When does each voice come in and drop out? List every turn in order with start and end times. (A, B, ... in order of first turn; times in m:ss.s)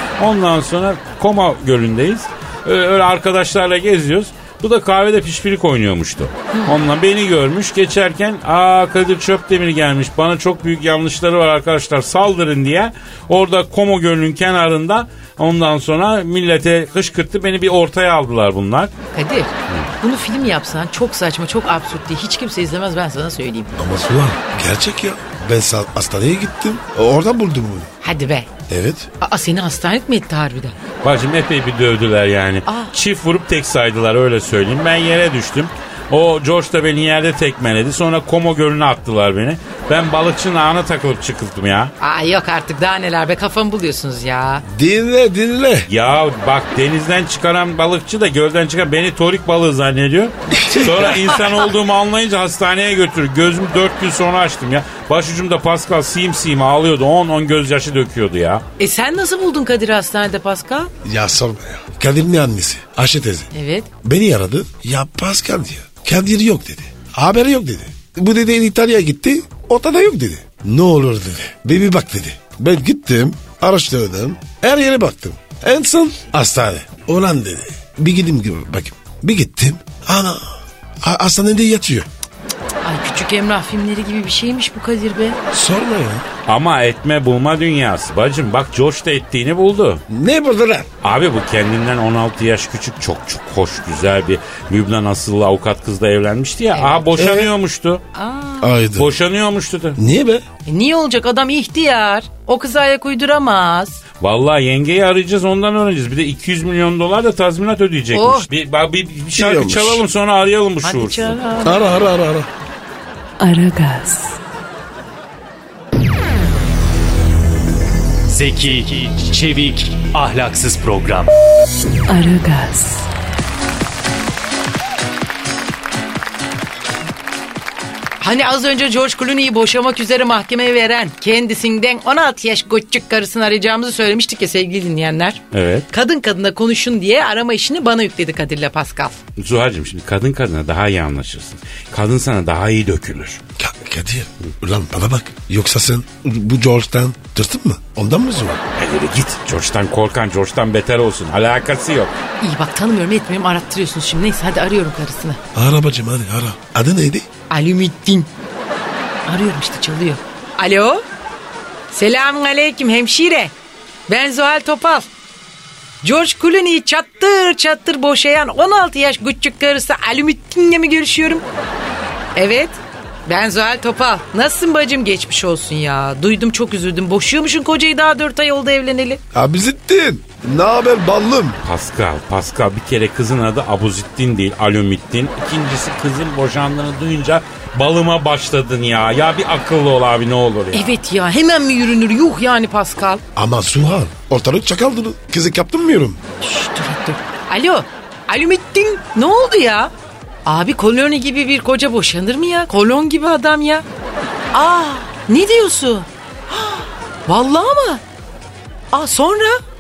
0:00.2-0:18.9 A
0:06.5-0:06.8 B
0:19.1-0:23.7 B
0:23.8-0:27.9 C
0:28.0-0:28.5 B
0:28.7-0:29.1 C
0:29.2-0:30.8 B
0:31.0-0:41.9 A
0:32.7-0:32.9 B
0:42.0-0:44.6 B
0:44.6-0:45.9 C
0:45.9-0:58.6 A
0:50.6-0:51.1 C
0:58.8-1:00.9 B
1:01.0-1:03.5 C
1:03.5-1:03.9 B
1:04.0-1:22.1 C
1:22.8-1:25.4 B
1:25.5-1:26.2 C
1:26.5-1:30.0 A
1:30.1-1:30.9 C
1:31.0-1:38.0 A
1:36.7-1:37.2 B
1:37.2-1:37.5 C
1:38.2-1:38.7 B
1:38.6-1:39.2 C
1:39.0-1:40.0 A
1:40.0-1:40.4 C
1:40.7-1:44.0 B
1:44.2-1:51.4 A
1:48.1-1:48.5 B
1:49.4-1:50.0 C
1:50.8-1:51.9 B
1:51.6-1:52.5 C
1:53.4-1:54.4 D
1:58.3-2:01.3 E
2:02.1-2:03.1 D
2:08.2-2:19.2 B
2:15.5-2:15.9 A
2:19.4-2:23.4 A
2:23.6-2:28.6 C
2:28.8-2:32.2 A
2:32.4-2:35.4 B
2:35.5-2:37.3 C
2:37.5-2:38.3 B
2:39.3-2:41.0 B
2:41.9-2:43.5 B
2:44.1-2:45.1 B
2:46.0-2:51.4 B
2:52.4-2:59.2 B
2:59.3-3:01.6 C
3:01.6-3:11.0 A
3:10.7-3:13.2 B
3:13.4-3:16.2 C
3:16.4-3:19.9 B
3:20.5-3:23.8 B
3:24.5-3:28.0 B
3:28.9-3:29.6 B